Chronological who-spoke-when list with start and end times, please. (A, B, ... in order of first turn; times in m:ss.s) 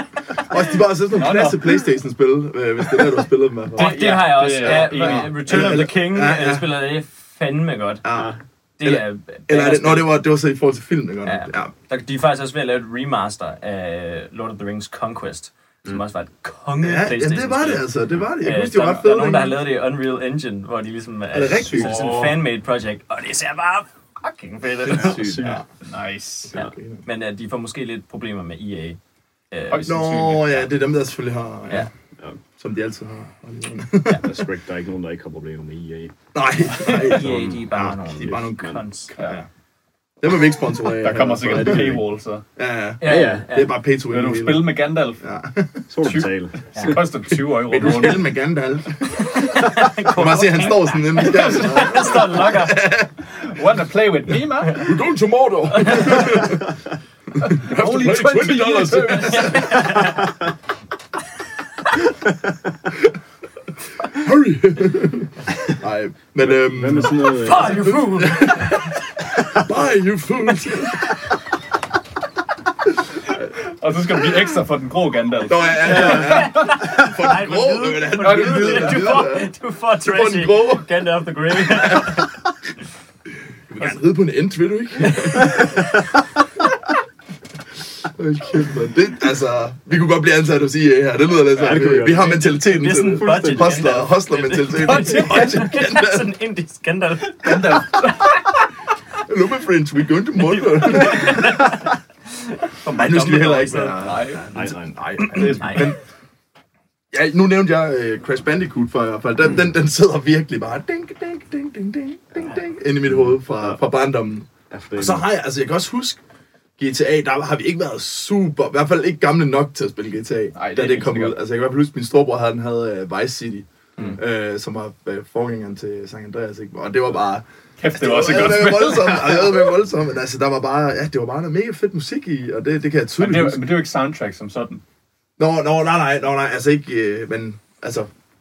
0:00.4-0:06.7 A
0:01.1-0:01.7 B
0:03.7-0:05.8 B
0:03.8-0:08.0 C
0:08.0-0:11.7 A
0:08.1-0:08.4 D
0:08.8-0:10.2 C
0:11.2-0:25.5 C
0:16.8-0:19.6 A
0:21.3-0:22.2 A
0:21.7-0:22.1 D
0:21.7-0:22.4 B
0:24.8-0:25.7 A
0:24.9-0:25.6 D
0:25.8-0:26.6 B
0:26.5-0:27.0 A
0:26.5-0:29.0 C
0:29.5-0:30.1 C
0:29.7-0:30.7 B
0:29.8-0:31.9 A
0:32.6-0:34.4 A
0:34.1-0:36.1 D
0:36.3-0:39.5 A
0:36.7-0:39.1 C
0:37.2-0:37.6 D
0:39.2-0:39.4 B
0:40.2-0:42.0 A
0:40.9-0:42.4 B
0:41.4-0:42.0 D
0:42.6-0:45.9 A
0:43.0-0:43.8 C
0:43.0-0:43.5 D
0:44.1-0:45.2 B
0:45.9-0:47.0 D
0:46.0-0:48.3 B
0:46.7-0:47.0 C
0:47.3-0:53.1 A
0:49.1-0:52.8 C
0:51.3-0:52.3 B
0:53.3-0:54.9 B
0:54.7-0:56.8 A
0:55.8-0:56.4 C
0:57.3-1:00.2 A
0:57.4-1:00.1 B
0:59.4-1:00.2 C
1:04.0-1:11.2 A
1:06.4-1:08.0 D
1:07.4-1:08.9 C
1:13.3-1:16.8 B
1:15.5-1:19.5 A
1:15.8-1:22.3 C
1:16.0-1:16.3 D
1:18.2-1:19.2 B
1:20.0-1:20.9 A
1:21.5-1:22.2 A
1:23.7-1:25.9 A
1:25.2-1:25.6 C
1:25.6-1:26.0 D
1:28.0-1:36.3 A
1:31.5-1:34.1 D
1:32.3-1:37.9 C
1:34.6-1:35.5 B
1:37.4-1:38.6 B
1:39.2-1:41.8 A
1:40.7-1:41.5 B
1:41.0-1:41.7 C
1:42.8-1:44.5 B
1:42.9-1:46.0 A
1:44.5-1:45.0 D
1:45.2-1:46.0 C
1:45.3-1:45.9 B
1:47.1-1:56.2 A
1:53.1-1:53.8 D
1:54.7-1:55.2 D
1:56.8-2:13.6 A
2:00.6-2:01.4 B
2:07.8-2:09.5 B
2:13.2-2:14.8 B
2:15.4-2:18.1 A